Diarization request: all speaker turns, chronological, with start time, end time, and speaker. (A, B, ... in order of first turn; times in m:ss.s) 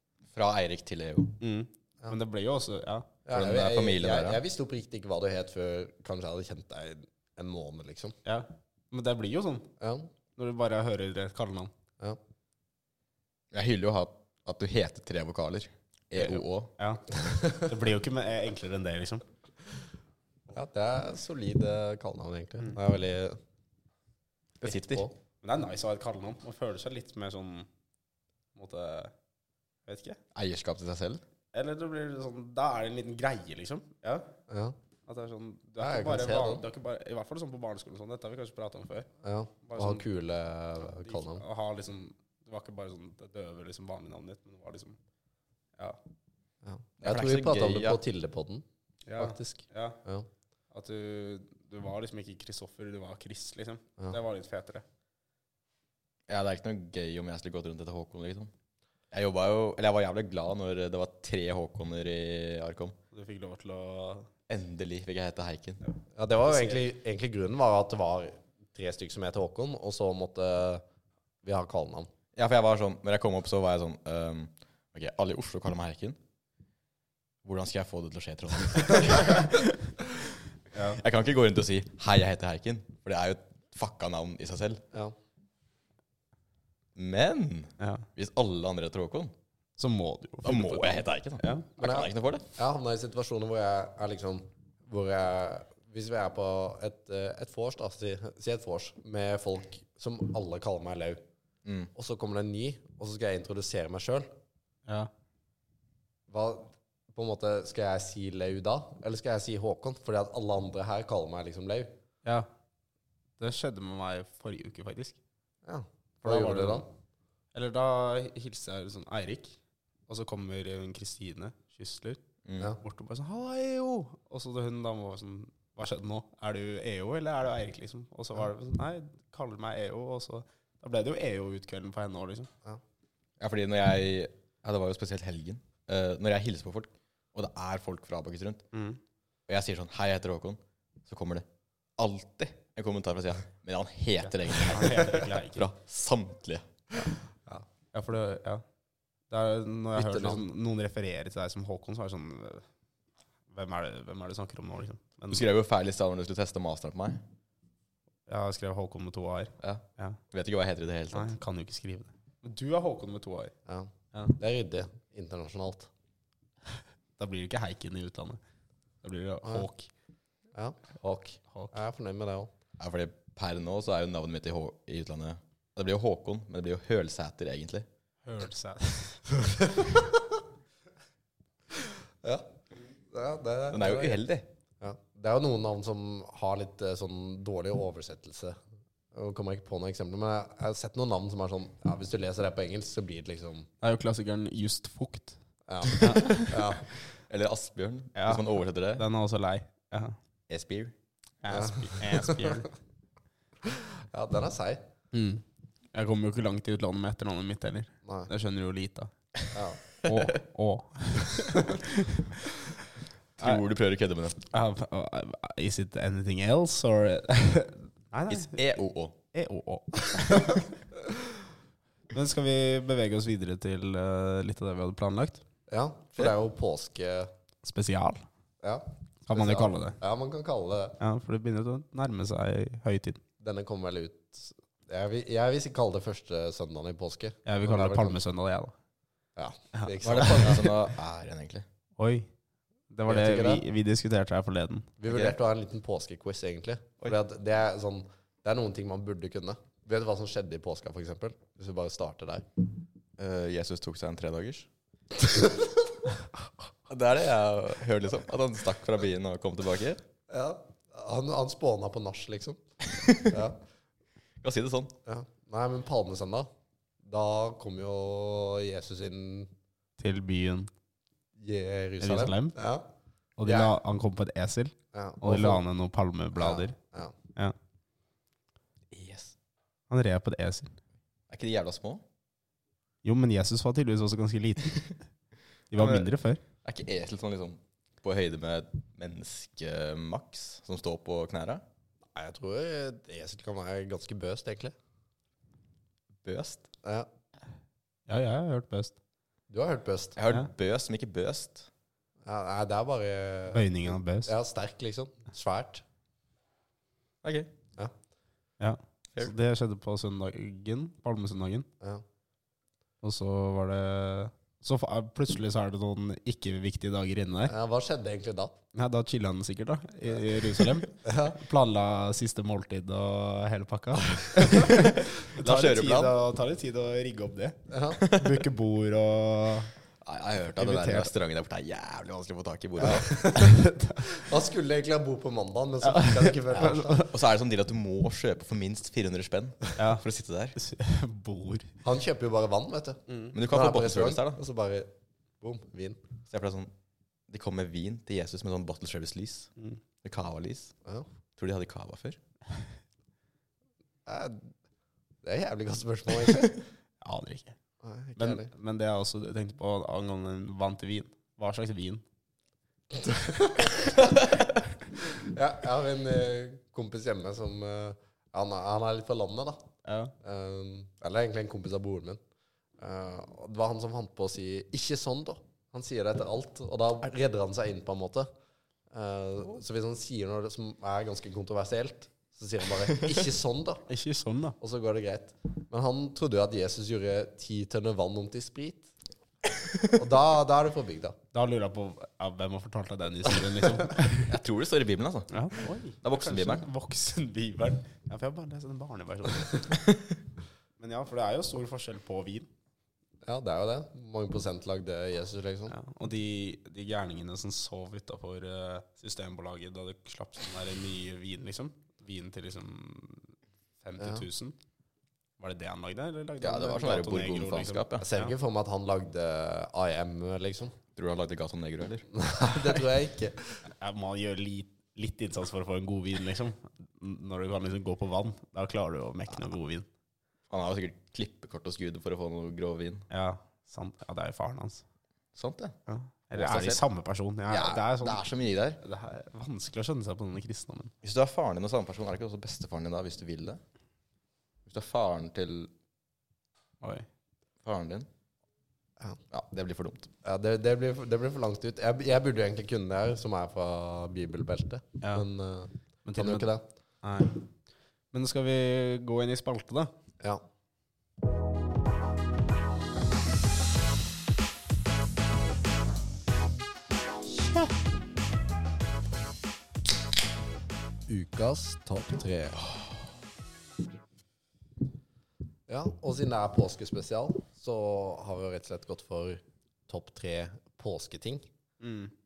0:00.3-0:01.4 A
0:01.4-0:03.2 B
0:03.3-0:08.2 C
0:03.3-0:04.4 A
0:08.2-0:09.7 B
0:09.8-0:10.1 C
0:10.4-0:11.7 B
0:13.5-0:16.7 A
0:16.1-0:19.2 B
0:17.2-0:17.7 C
0:20.5-0:23.4 C
0:24.6-0:25.1 C
0:24.6-0:25.1 A
0:25.4-0:27.7 B
0:28.5-0:29.1 B
0:29.8-0:30.2 B
0:30.3-0:31.2 A
0:31.5-0:34.3 B
0:34.5-0:34.7 C
0:35.1-0:39.1 B
0:35.8-0:36.6 C
0:39.2-0:41.4 C
0:39.6-0:40.0 B
0:41.0-0:45.0 B
0:46.6-0:48.6 C
0:47.0-0:48.0 A
0:49.1-0:50.0 B
0:49.2-0:50.3 C
0:50.7-0:54.8 B
0:56.3-0:58.5 A
0:59.1-1:03.0 A
1:03.1-1:04.3 B
1:04.5-1:05.8 A
1:05.8-1:06.8 B
1:06.2-1:10.8 C
1:11.4-1:12.1 C
1:12.4-1:16.2 A
1:17.4-1:19.7 A
1:20.7-1:21.0 B
1:20.9-1:24.8 A
1:26.9-1:29.3 A
1:27.8-1:28.0 B
1:29.8-1:31.7 B
1:30.4-1:32.5 A
1:31.8-1:41.2 C
1:41.6-1:41.9 A
1:41.9-1:44.3 C
1:46.3-1:51.9 C
1:53.4-1:55.2 B
1:55.6-1:56.9 C
1:56.2-1:56.8 B
1:57.5-2:02.2 B
2:02.4-2:02.7 A
2:02.8-2:12.5 B
2:13.4-2:18.6 A
2:18.7-2:19.0 B
2:19.5-2:21.4 A
2:22.0-2:26.7 A
2:24.6-2:25.7 B
2:27.9-2:28.6 B
2:29.3-2:32.6 B
2:30.0-2:30.4 C
2:33.5-2:35.4 B
2:35.3-2:37.2 A
2:38.3-2:40.2 B
2:39.6-2:41.3 A
2:41.1-2:43.5 B
2:43.7-2:45.9 C
2:47.2-2:48.4 B
2:49.0-2:49.9 B
2:50.5-2:52.5 C
2:52.8-2:57.8 A
2:58.2-2:59.3 B
2:59.4-3:00.4 C
3:01.8-3:02.5 C
3:03.1-3:04.2 C
3:03.7-3:04.5 A
3:04.8-3:08.6 C
3:09.1-3:13.7 C
3:13.8-3:15.4 B
3:15.7-3:16.9 C
3:15.9-3:16.6 B
3:17.3-3:19.0 A
3:18.1-3:20.2 B
3:20.5-3:20.9 A
3:21.4-3:22.7 B
3:21.5-3:22.6 C
3:23.6-3:24.8 C
3:25.1-3:29.1 B
3:29.5-3:29.8 C
3:30.0-3:32.4 B
3:33.4-3:34.4 A
3:34.5-3:38.6 B
3:38.3-3:39.2 A
3:39.3-3:40.7 B
3:42.1-3:45.4 B
3:45.7-3:47.3 C
3:47.6-3:48.3 B
3:48.6-3:51.0 C
3:49.3-3:50.0 B
3:51.0-3:53.2 B
3:53.4-3:58.2 C
3:57.4-3:58.7 B
3:59.4-4:00.8 C
3:59.7-4:00.5 B
4:00.0-4:01.6 A
4:02.0-4:02.3 B
4:02.9-4:04.9 B
4:03.1-4:03.6 C
4:05.0-4:12.4 C
4:05.1-4:05.4 A
4:13.2-4:14.7 A
4:15.2-4:15.7 C
4:16.9-4:20.0 A
4:20.3-4:22.6 C
4:22.9-4:23.3 A
4:23.1-4:23.6 C
4:24.4-4:24.9 A
4:25.0-4:26.5 C
4:27.0-4:29.5 C
4:30.0-4:30.7 B
4:31.4-4:32.8 C
4:32.0-4:32.6 B
4:33.4-4:36.8 B
4:33.4-4:33.7 C
4:34.9-4:35.6 C
4:36.4-4:37.1 C
4:38.9-4:39.3 A
4:39.9-4:40.8 B
4:41.3-4:42.0 A
4:43.0-4:45.0 B
4:45.7-4:46.4 B
4:45.7-4:46.1 A
4:46.6-4:51.6 A
4:52.1-4:54.7 C
4:56.2-4:56.6 A
4:58.1-4:59.0 B
4:59.5-5:00.2 C
5:00.2-5:01.7 A
5:02.2-5:05.8 C
5:03.5-5:04.3 B
5:07.2-5:07.5 A
5:08.6-5:11.7 B
5:13.0-5:17.5 B
5:17.4-5:18.6 C
5:18.7-5:29.7 B
5:21.0-5:21.4 C
5:24.2-5:26.2 A
5:27.7-5:28.0 C
5:28.0-5:28.3 A
5:30.0-5:33.2 A
5:30.6-5:31.1 B
5:32.8-5:37.0 C
5:33.2-5:34.3 B
5:35.8-5:37.1 B
5:36.6-5:40.6 A
5:39.8-5:40.0 B
5:40.6-5:41.7 B
5:41.8-5:44.9 C
5:43.3-5:44.4 A
5:45.4-5:46.0 C
5:46.3-5:46.7 A
5:47.3-5:49.5 A
5:50.0-5:50.7 A
5:51.4-5:52.2 A
5:54.0-5:54.5 C
5:55.2-5:56.6 C
5:57.0-5:57.6 B
5:57.8-5:58.5 C
5:58.2-6:02.0 B
6:02.9-6:04.2 C
6:05.0-6:09.6 C
6:09.8-6:10.1 B
6:10.2-6:12.2 C
6:12.8-6:18.3 C
6:18.9-6:23.8 C
6:23.9-6:24.6 B
6:24.6-6:28.9 C
6:29.8-6:31.2 C
6:31.3-6:34.3 B
6:34.3-6:35.3 A
6:35.3-6:39.8 B
6:36.0-6:36.6 A
6:39.8-6:40.1 A
6:40.8-6:42.5 B
6:43.2-6:45.7 C
6:45.7-6:54.6 B
6:54.0-6:54.2 C
6:55.4-6:58.3 B
6:56.4-6:58.1 A
6:58.0-7:00.7 C
7:01.0-7:02.8 A
7:02.1-7:03.6 C
7:03.8-7:09.9 B
7:10.5-7:13.0 A
7:13.1-7:14.8 B
7:15.3-7:15.8 A
7:15.9-7:18.2 B
7:16.3-7:16.8 A
7:17.5-7:18.8 A
7:18.8-7:20.9 B
7:21.0-7:23.6 A
7:24.6-7:25.7 A
7:26.8-7:27.1 B
7:27.6-7:28.1 A
7:29.3-7:30.1 A
7:30.2-7:36.6 C
7:36.0-7:36.5 B
7:37.0-7:37.4 B
7:38.1-7:39.9 B
7:51.1-7:52.6 C
7:55.7-8:01.4 C
8:01.8-8:02.1 B